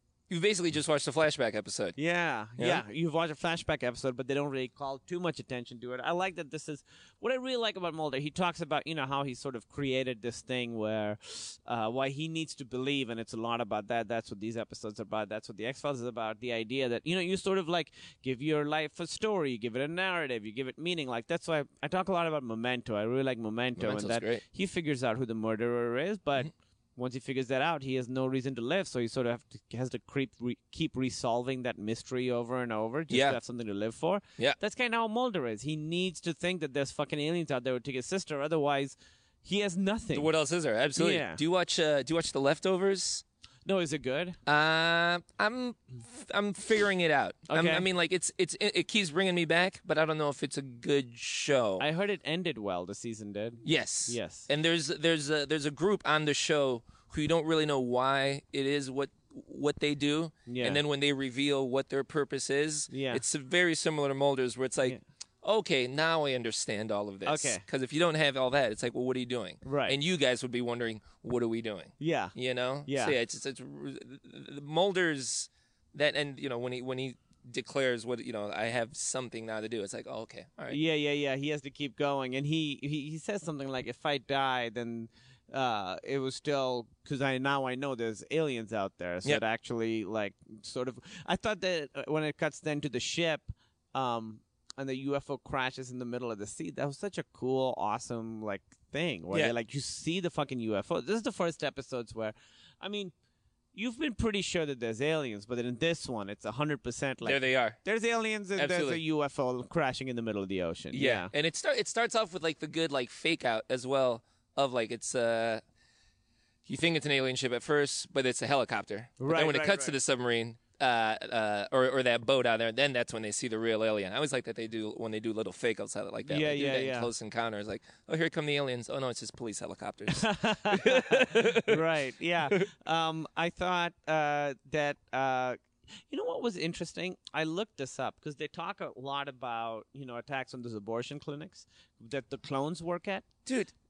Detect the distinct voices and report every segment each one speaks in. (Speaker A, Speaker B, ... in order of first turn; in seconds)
Speaker A: 0.3-2.0, 2.6-2.8, 23.8-24.4, 33.1-33.4, 40.1-43.2, 44.5-51.9, 53.6-80.8, 107.2-107.8, 108.6-109.0, 110.9-115.6, 116.7-131.8, 143.5-143.7
Speaker B: 2.0-40.3, 41.0-41.4, 43.7-44.4, 47.5-47.9, 51.8-54.5, 60.5-60.8, 62.9-63.2, 67.2-67.6, 69.6-70.0, 72.0-72.3, 72.9-73.2, 80.7-103.1, 103.7-111.3, 119.2-119.9, 126.3-127.1, 130.1-143.3